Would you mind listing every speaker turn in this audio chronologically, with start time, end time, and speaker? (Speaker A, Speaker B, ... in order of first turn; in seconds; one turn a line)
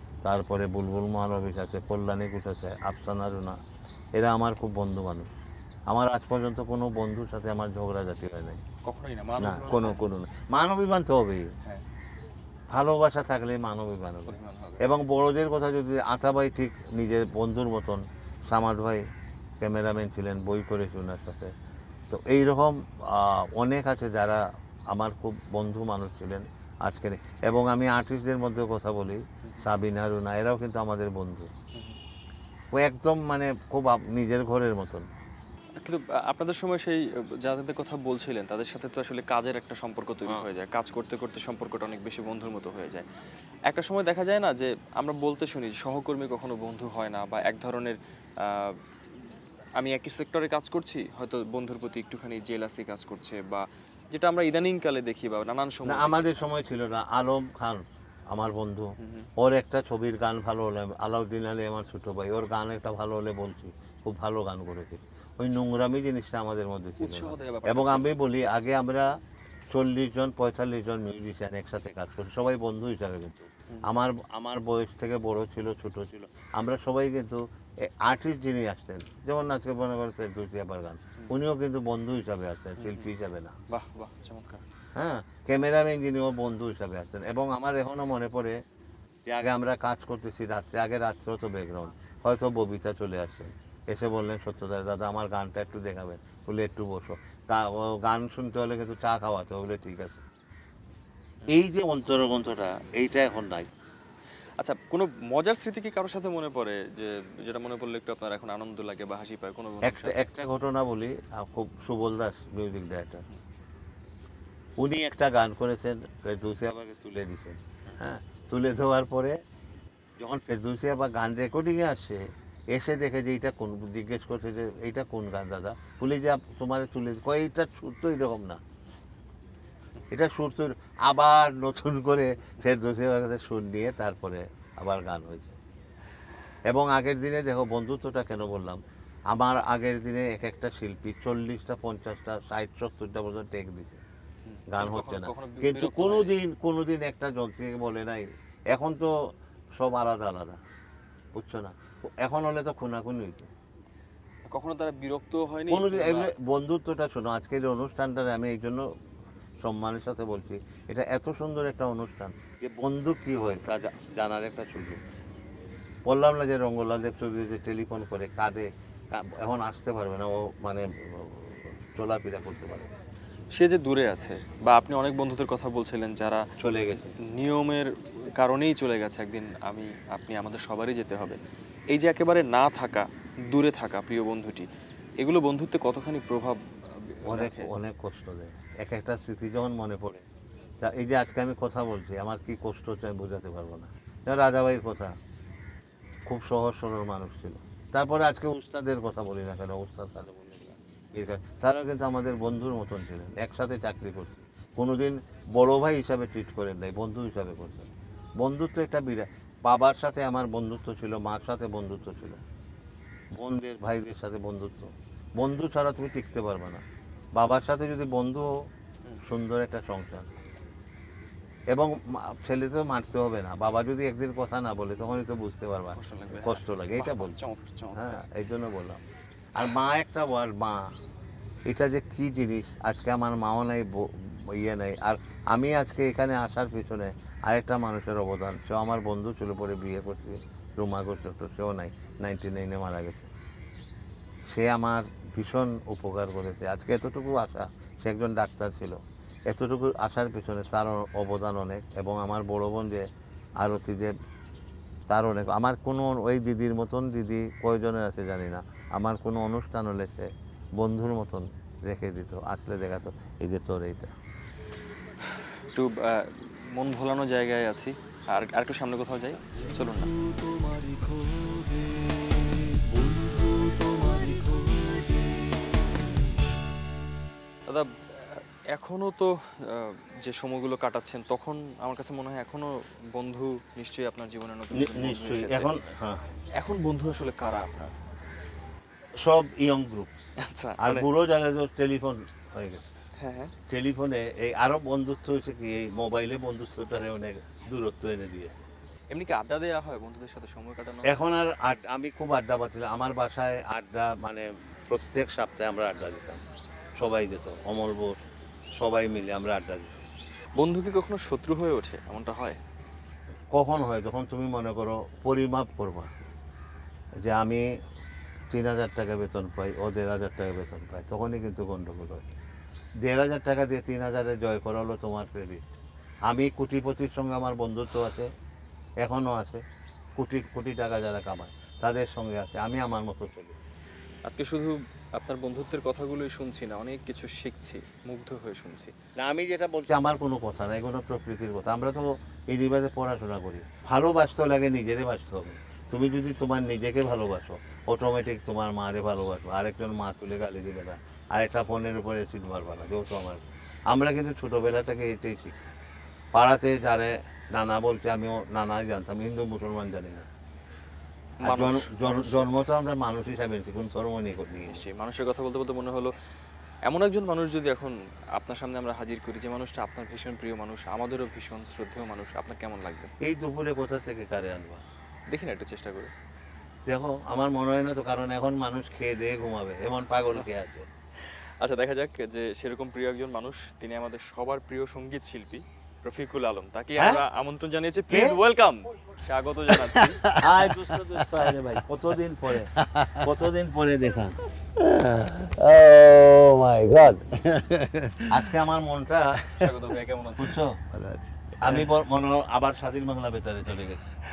Speaker A: 0.2-3.6
Speaker A: 4.1-5.3
Speaker A: 5.9-8.6
Speaker B: 8.8-10.1
Speaker A: 9.4-11.5
Speaker A: 12.7-19.0
Speaker B: 14.3-14.8
Speaker A: 19.6-21.5
Speaker A: 22.1-31.5
Speaker A: 32.7-35.1
Speaker B: 35.8-43.0
Speaker B: 43.7-48.8
Speaker B: 49.8-56.2
Speaker A: 55.8-69.2
Speaker B: 59.0-59.3
Speaker B: 67.0-68.1
Speaker A: 69.7-83.5
Speaker B: 82.8-83.1
Speaker B: 83.7-84.6
Speaker A: 84.9-88.6
Speaker A: 89.3-100.2
Speaker A: 101.5-103.7
Speaker B: 104.6-110.2
Speaker A: 109.8-113.2
Speaker A: 114.8-119.4
Speaker A: 120.2-128.6
Speaker A: 130.1-135.6
Speaker A: 136.7-144.0
Speaker B: 144.5-146.3
Speaker A: 144.7-149.1
Speaker A: 149.7-150.6
Speaker A: 151.3-153.5
Speaker B: 154.5-156.3
Speaker A: 155.7-158.9
Speaker A: 159.6-165.0
Speaker A: 166.1-172.9
Speaker B: 173.5-176.4
Speaker A: 176.6-177.1
Speaker B: 177.2-181.4
Speaker B: 181.9-184.7
Speaker B: 185.2-187.7
Speaker A: 187.3-190.2
Speaker A: 190.8-195.2
Speaker A: 196.2-207.9
Speaker A: 208.4-212.4
Speaker A: 213.3-216.8
Speaker A: 217.3-218.5
Speaker A: 219.2-220.3
Speaker A: 221.7-227.3
Speaker B: 225.9-228.1
Speaker A: 227.9-229.0
Speaker A: 229.5-230.8
Speaker A: 231.7-243.3
Speaker A: 244.5-253.1
Speaker A: 253.6-254.1
Speaker A: 255.1-264.1
Speaker B: 265.7-270.1
Speaker B: 277.7-285.7
Speaker A: 284.7-286.3
Speaker B: 286.6-287.9
Speaker A: 289.2-290.1
Speaker B: 290.4-291.1
Speaker A: 290.8-292.9
Speaker B: 293.2-293.5
Speaker A: 293.7-298.6
Speaker B: 299.1-301.2
Speaker A: 301.0-306.4
Speaker A: 306.9-310.0
Speaker B: 310.6-312.6
Speaker A: 313.5-316.1
Speaker A: 317.2-317.6
Speaker A: 318.5-322.2
Speaker A: 323.0-325.6
Speaker A: 326.2-328.3
Speaker A: 329.0-329.6
Speaker A: 330.1-333.6
Speaker B: 334.2-338.9
Speaker A: 339.2-355.6
Speaker A: 356.3-360.3
Speaker B: 361.4-362.5
Speaker A: 361.4-364.8
Speaker B: 364.7-366.1
Speaker B: 366.9-373.1
Speaker A: 373.2-374.8
Speaker B: 375.3-376.1
Speaker A: 376.9-380.9
Speaker B: 381.2-390.2
Speaker A: 387.0-387.2
Speaker A: 388.1-388.4
Speaker C: 390.2-391.6
Speaker A: 390.4-394.4
Speaker C: 392.8-393.2
Speaker C: 394.8-398.5
Speaker A: 398.3-399.4
Speaker B: 399.5-400.6
Speaker A: 400.4-400.8
Speaker C: 400.9-401.9
Speaker A: 401.6-404.1